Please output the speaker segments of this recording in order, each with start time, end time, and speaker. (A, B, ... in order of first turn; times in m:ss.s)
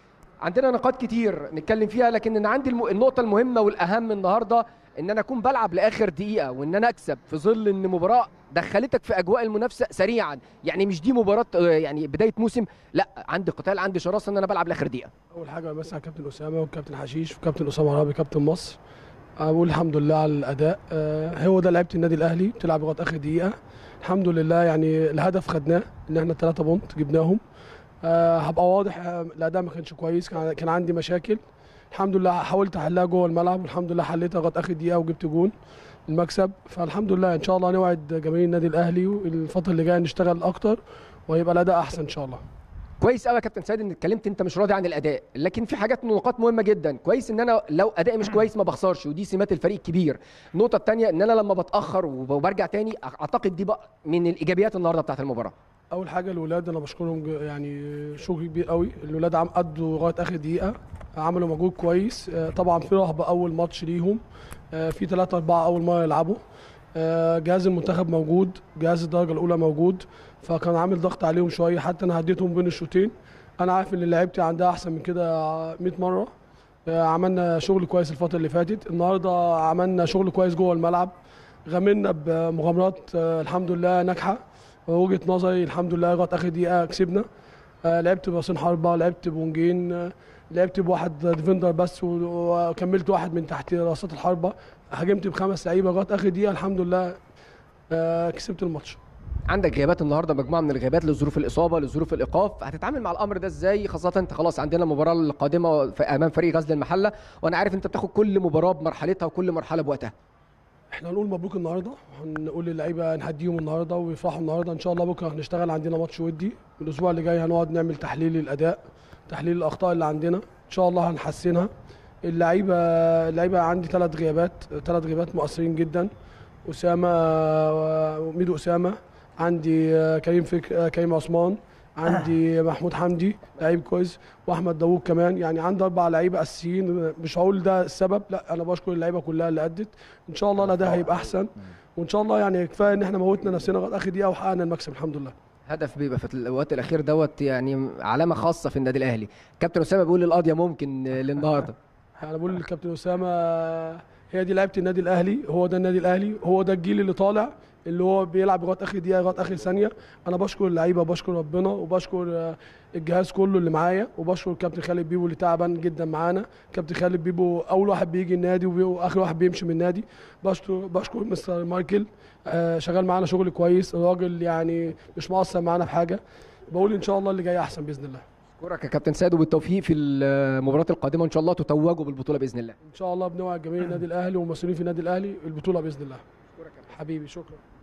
0:00.4-0:15.1 A
0:15.3-0:18.8 B
0:19.4-0:27.4 B
0:28.0-0:31.4 B
0:31.9-0:35.5 B
0:36.1-0:42.4 B
0:43.0-0:55.5 A
0:55.9-1:04.2 B
1:04.7-1:06.4 B
1:06.9-1:16.3 B
1:16.8-1:21.1 B
1:21.7-1:27.2 B
1:27.8-1:37.2 B
1:37.9-1:39.0 B
1:39.5-1:50.1 A
1:50.9-2:01.7 B
2:02.2-2:06.1 B
2:06.6-2:25.3 B
2:25.7-2:31.8 A
2:32.2-2:56.2 B
2:56.7-2:58.2 B
2:58.6-3:02.7 A
3:02.9-3:06.2 B
3:06.6-3:06.8 A
3:06.9-3:07.6 B